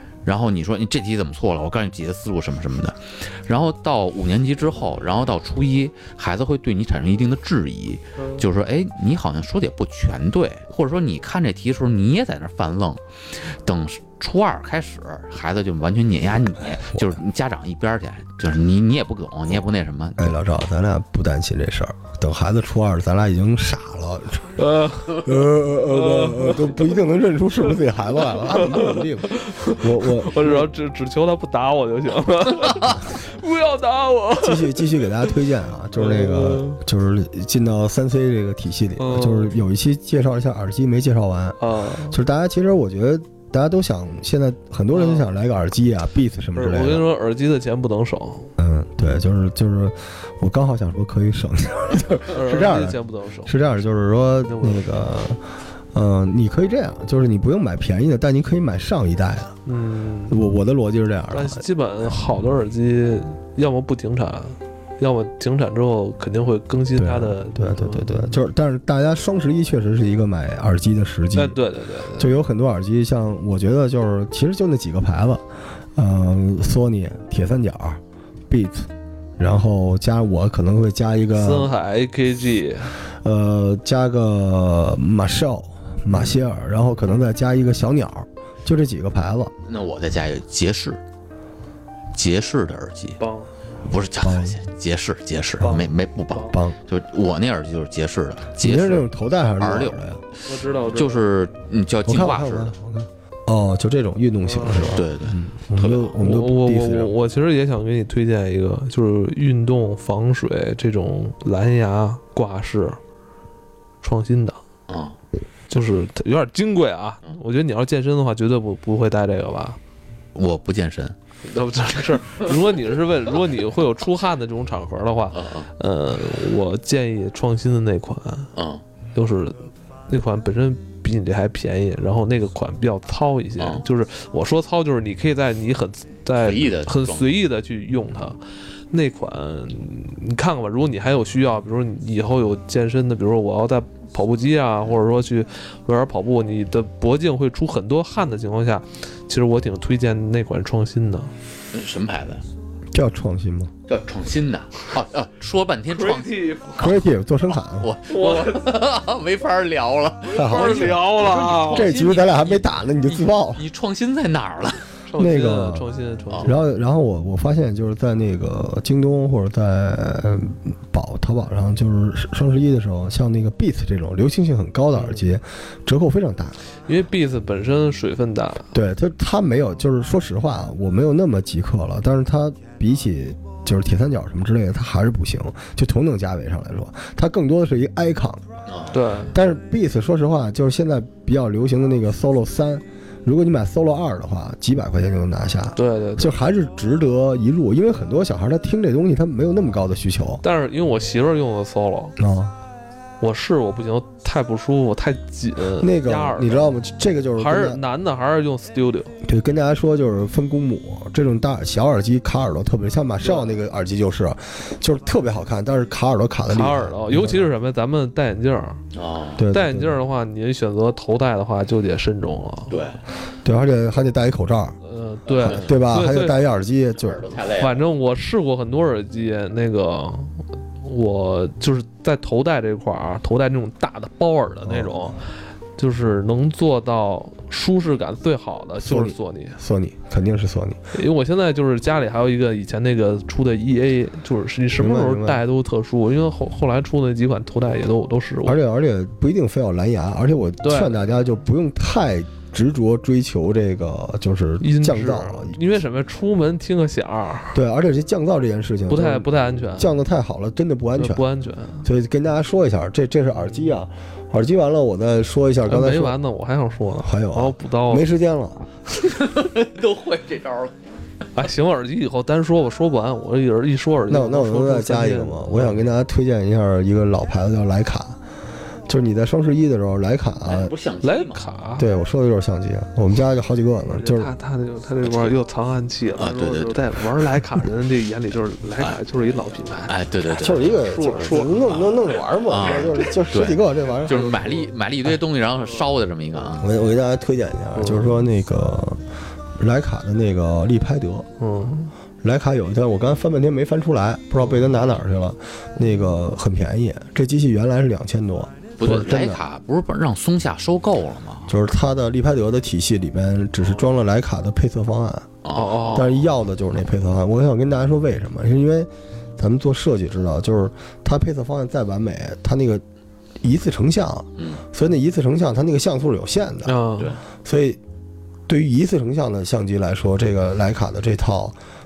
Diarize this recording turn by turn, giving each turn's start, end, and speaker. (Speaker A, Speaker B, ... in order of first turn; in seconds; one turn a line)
Speaker A: 0.2-20.3
Speaker B: 20.2-30.7
Speaker C: 24.6-25.3
Speaker C: 25.9-26.8
Speaker C: 28.4-35.2
Speaker B: 34.4-47.1
Speaker C: 36.0-36.8
Speaker C: 39.0-39.6
Speaker C: 41.6-42.2
Speaker C: 44.9-45.3
Speaker C: 46.5-48.5
Speaker B: 48.6-59.5
Speaker C: 52.3-53.5
Speaker C: 54.5-54.8
Speaker C: 59.6-60.4
Speaker B: 60.3-61.6
Speaker C: 61.3-68.3
Speaker B: 67.0-71.6
Speaker C: 71.3-72.4
Speaker B: 72.2-75.4
Speaker B: 76.0-81.7
Speaker C: 81.3-83.0
Speaker B: 83.2-89.5
Speaker C: 86.1-86.4
Speaker A: 89.6-91.0
Speaker A: 92.1-93.2
Speaker C: 93.2-93.5
Speaker A: 93.8-99.1
Speaker B: 94.2-94.6
Speaker C: 95.6-96.5
Speaker B: 96.5-96.8
Speaker B: 98.6-100.2
Speaker A: 99.6-100.0
Speaker C: 100.5-101.2
Speaker A: 100.9-102.7
Speaker B: 102.0-107.1
Speaker C: 104.5-105.0
Speaker A: 104.9-106.2
Speaker C: 106.2-113.0
Speaker C: 114.0-114.6
Speaker A: 114.9-115.2
Speaker C: 115.7-119.8
Speaker A: 120.3-121.2
Speaker C: 121.4-128.5
Speaker A: 125.3-125.7
Speaker A: 128.5-128.8
Speaker C: 129.1-138.4
Speaker A: 136.4-137.4
Speaker C: 138.9-151.3
Speaker A: 151.7-152.4
Speaker B: 152.9-153.7
Speaker A: 153.9-157.0
Speaker C: 155.9-156.8
Speaker B: 156.8-157.9
Speaker A: 157.7-164.9
Speaker C: 158.1-158.7
Speaker B: 160.3-161.0
Speaker C: 160.3-161.9
Speaker B: 161.7-163.6
Speaker C: 165.1-166.6
Speaker B: 165.2-165.8
Speaker B: 166.4-176.6
Speaker C: 174.9-175.2
Speaker C: 176.9-178.7
Speaker B: 178.7-188.4
Speaker A: 188.7-188.9
Speaker C: 188.9-189.3
Speaker B: 189.3-200.4
Speaker C: 195.8-196.3
Speaker C: 200.4-202.1
Speaker B: 202.2-202.5
Speaker C: 203.2-206.7
Speaker B: 205.8-207.8
Speaker C: 207.4-209.1
Speaker B: 209.2-217.5
Speaker C: 213.2-213.6
Speaker C: 216.5-218.8
Speaker A: 218.9-219.4
Speaker B: 219.4-220.0
Speaker C: 219.5-222.8
Speaker A: 222.7-223.0
Speaker B: 223.4-224.8
Speaker C: 224.8-226.3
Speaker A: 225.3-225.8
Speaker B: 225.4-227.2
Speaker A: 227.0-227.8
Speaker C: 227.6-239.6
Speaker B: 234.6-235.1
Speaker B: 238.8-240.8
Speaker C: 240.9-248.6
Speaker B: 244.8-245.4
Speaker B: 248.4-255.6
Speaker C: 250.6-251.0
Speaker C: 254.6-257.6
Speaker B: 257.5-261.2
Speaker C: 258.9-259.9
Speaker C: 260.9-261.9
Speaker B: 261.8-266.2
Speaker C: 265.6-268.0
Speaker B: 267.0-268.7
Speaker A: 269.0-270.7
Speaker C: 271.3-275.8
Speaker B: 274.1-278.2
Speaker B: 278.9-280.7
Speaker A: 280.4-281.4
Speaker C: 281.0-281.9
Speaker B: 281.8-284.3
Speaker C: 283.8-291.6
Speaker A: 285.0-285.3
Speaker A: 286.1-287.0
Speaker A: 289.9-296.7
Speaker B: 290.4-294.3
Speaker C: 294.1-294.5
Speaker B: 296.6-299.0
Speaker C: 297.8-298.2
Speaker B: 299.6-301.3
Speaker C: 301.4-301.9
Speaker B: 302.2-309.4
Speaker A: 308.8-311.5
Speaker B: 311.5-315.4
Speaker A: 315.4-316.2
Speaker C: 315.5-316.1
Speaker B: 315.9-322.8
Speaker B: 323.4-326.7
Speaker C: 326.6-327.1
Speaker B: 327.4-327.8
Speaker B: 328.5-331.6